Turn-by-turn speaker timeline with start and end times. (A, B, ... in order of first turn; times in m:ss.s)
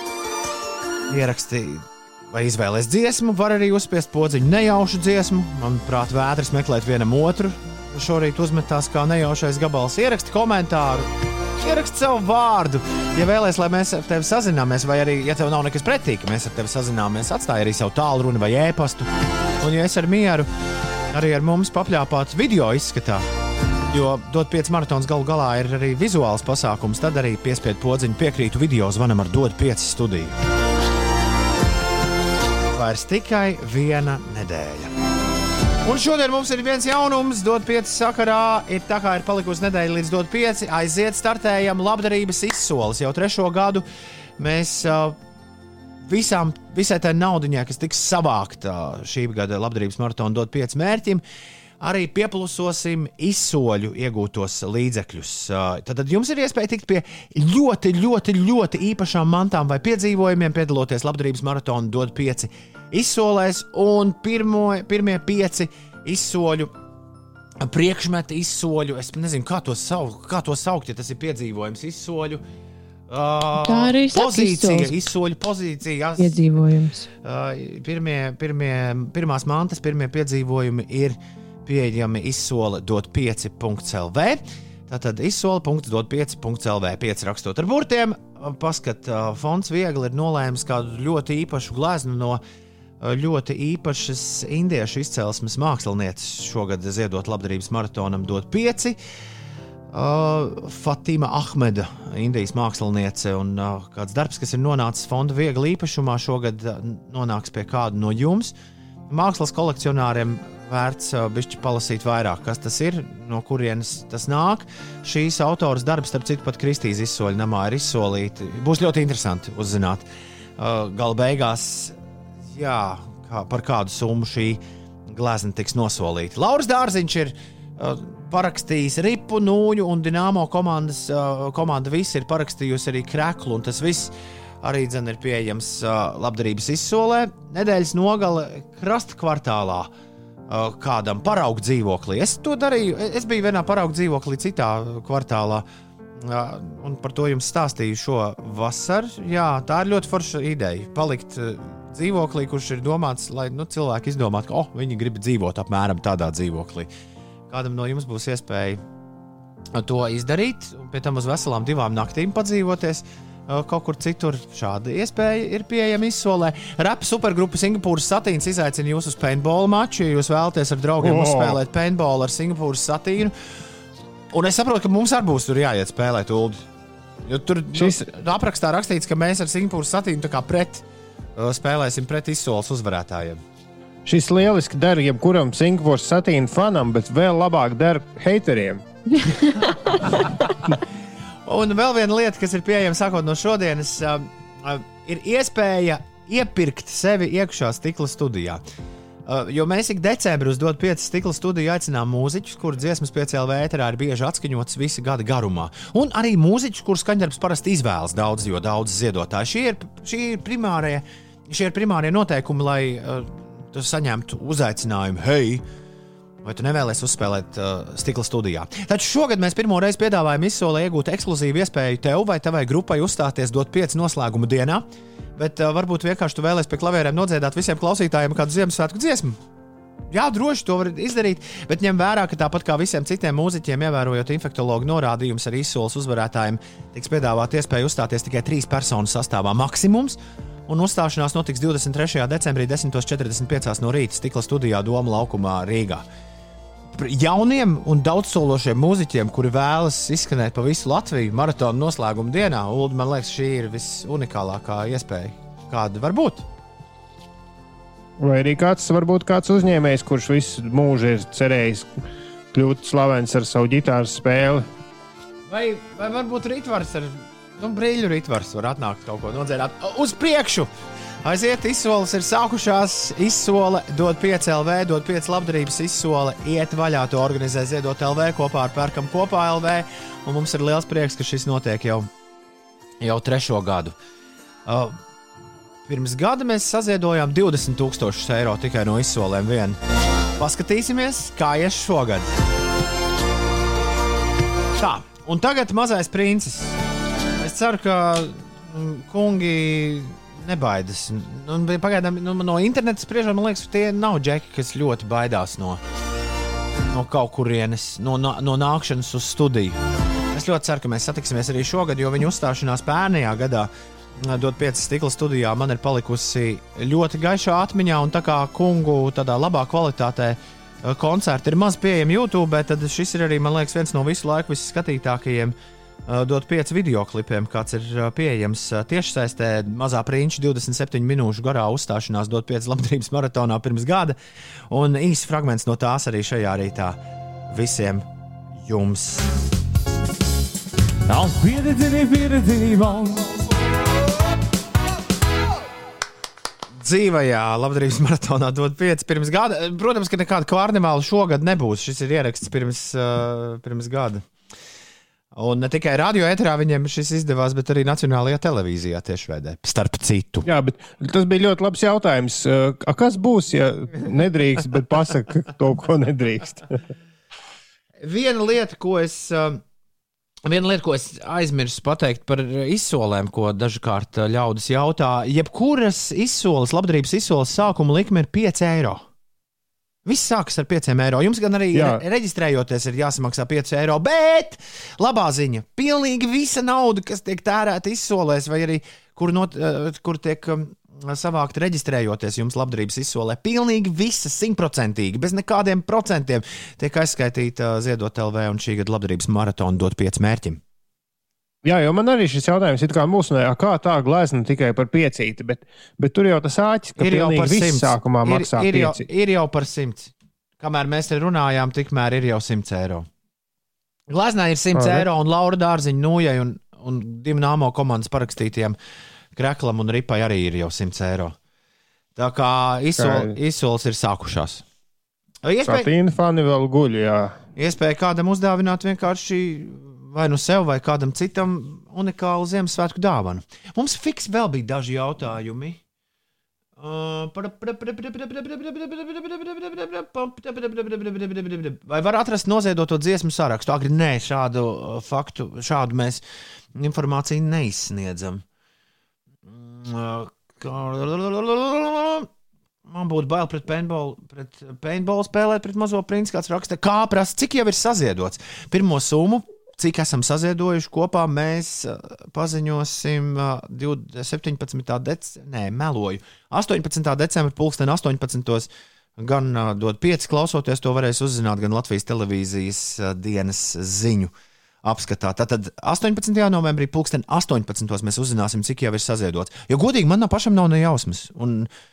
0:01.1-0:19.1 A
0:19.6-0:20.5 A
0:21.1-0:23.2 A
0:23.9-0:30.3 A
0:32.7-0:34.9 A
0:35.8-0:43.8 A
0:44.4-0:45.2 A
0:46.0-0:51.2 A
0:51.8-1:06.7 A
1:07.6-1:12.4 A
1:13.1-1:16.4 A
1:13.6-1:14.9 B
1:16.2-1:17.1 B
1:17.2-1:32.4 A
1:33.0-1:39.0 A
1:39.9-1:48.5 A
1:49.1-2:00.1 A
2:00.6-2:02.0 A
2:02.5-2:19.9 A
2:20.5-2:25.6 A
2:26.2-2:36.9 A
2:37.5-2:38.8 A
2:39.7-2:53.3 A
2:51.0-2:51.6 C
2:54.3-2:56.6 A
2:57.2-3:00.8 A
2:57.7-2:58.0 C
3:01.4-3:03.4 A
3:04.0-3:08.8 C
3:09.3-3:09.5 B
3:11.4-3:18.6 A
3:19.2-3:35.6 A
3:36.4-3:49.4 A
3:50.1-4:06.0 A
4:06.9-4:16.4 A
4:18.2-4:21.9 C
4:22.5-4:24.6 C
4:25.5-4:30.7 A
4:31.2-4:42.1 A
4:43.0-4:44.0 A
4:44.6-4:45.0 A
4:45.8-4:49.8 A
4:50.4-4:52.3 A
4:54.8-4:56.8 A
4:57.4-5:05.8 A
5:06.9-5:09.8 A
5:10.3-5:25.5 A
5:26.0-5:34.2 A
5:34.7-5:37.0 A
5:37.5-5:38.0 A
5:38.6-5:39.3 A
5:41.0-5:43.4 A
5:46.8-5:54.2 A
5:55.3-6:00.5 A
6:00.4-6:06.8 C
6:08.0-6:09.6 A
6:10.4-6:19.0 A
6:20.0-6:40.6 A
6:21.7-6:22.0 C
6:41.6-6:49.0 C
6:47.0-6:53.1 A
6:54.1-6:58.8 A
6:54.7-6:55.0 C
6:59.4-7:01.4 A
7:02.2-7:04.6 A
7:03.0-7:03.3 C
7:05.4-7:05.9 A
7:05.6-7:07.4 C
7:07.6-7:15.8 A
7:16.8-7:26.2 A
7:26.8-7:28.4 A
7:29.4-7:32.3 A
7:32.9-7:54.3 A
7:54.8-8:01.7 A